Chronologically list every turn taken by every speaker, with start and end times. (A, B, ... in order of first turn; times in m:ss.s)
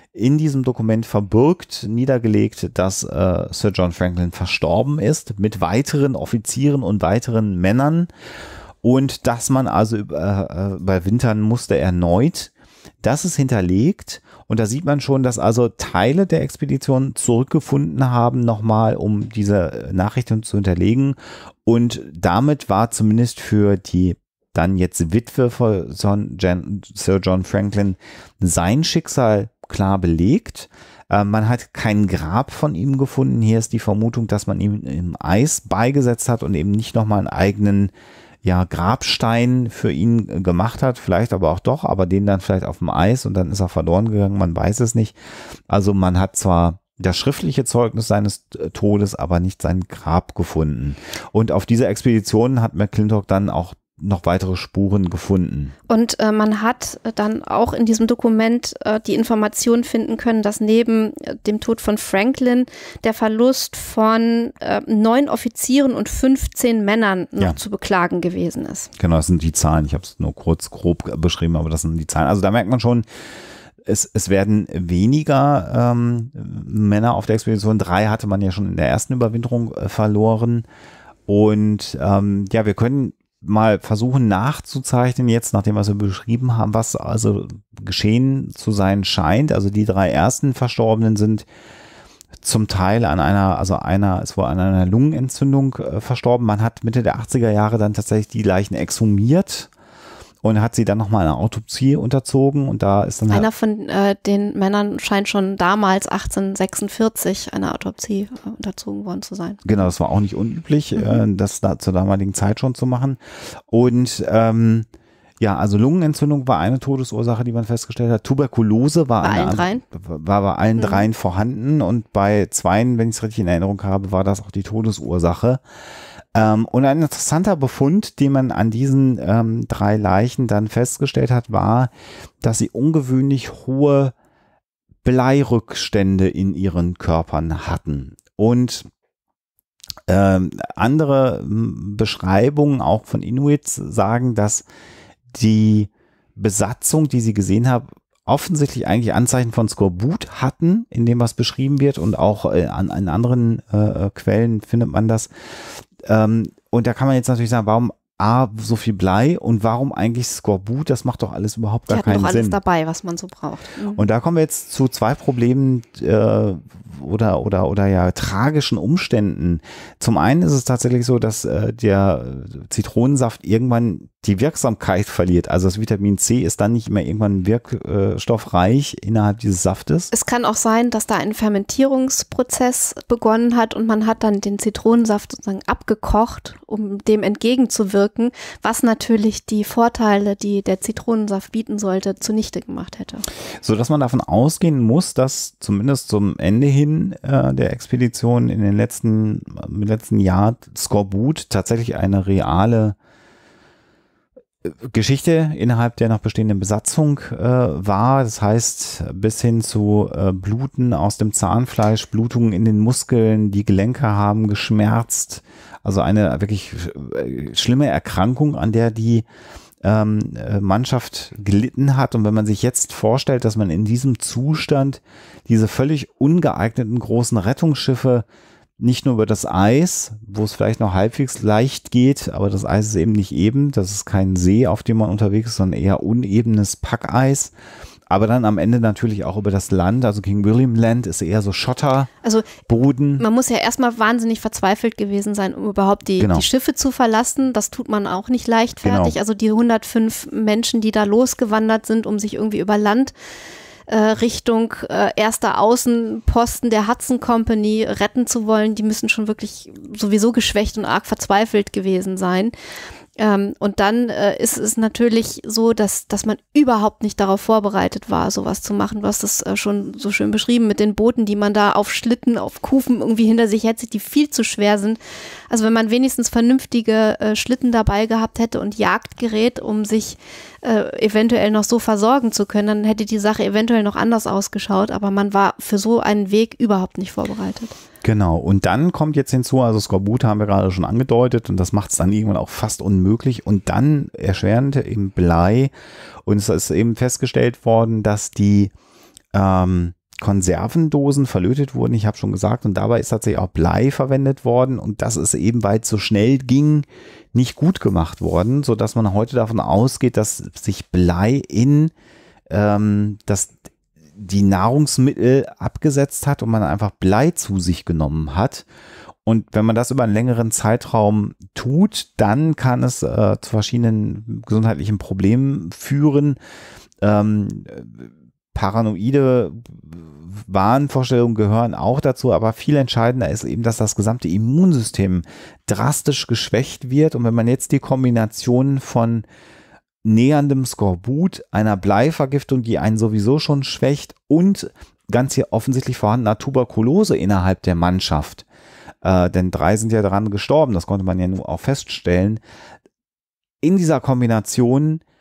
0:00.1-0:08.1 A
0:08.8-0:37.9 A
0:38.4-0:45.2 A
0:45.7-0:55.7 A
0:55.9-1:08.9 B
1:09.0-1:13.1 A
1:13.8-1:20.7 A
1:21.3-1:31.5 A
1:32.4-1:39.7 A
1:40.4-1:43.5 A
1:43.3-1:49.8 B
1:49.6-1:54.9 A
1:55.4-2:05.6 A
1:59.2-1:59.8 B
2:00.8-2:01.0 B
2:06.4-2:14.2 A
2:15.0-2:18.9 A
2:20.1-2:24.7 A
2:25.3-2:42.6 A
2:41.9-2:44.0 B
2:44.0-3:00.1 A
3:00.1-3:13.3 B
3:13.6-3:23.0 A
3:24.6-3:39.3 A
3:39.8-3:48.3 A
3:48.8-3:57.5 A
3:58.1-4:02.1 A
4:02.2-4:02.6 B
4:02.6-4:03.2 A
4:03.2-4:13.1 B
4:06.2-4:06.4 A
4:08.8-4:09.2 A
4:13.9-4:22.5 B
4:23.2-4:35.0 B
4:35.5-4:47.8 B
4:48.0-4:55.7 A
4:56.2-4:58.7 A
4:59.3-5:11.9 A
5:12.5-5:13.5 A
5:14.2-5:18.7 A
5:19.2-5:26.4 A
5:27.0-5:39.3 A
5:40.0-5:48.4 A
5:49.0-5:52.4 A
5:53.6-5:55.0 A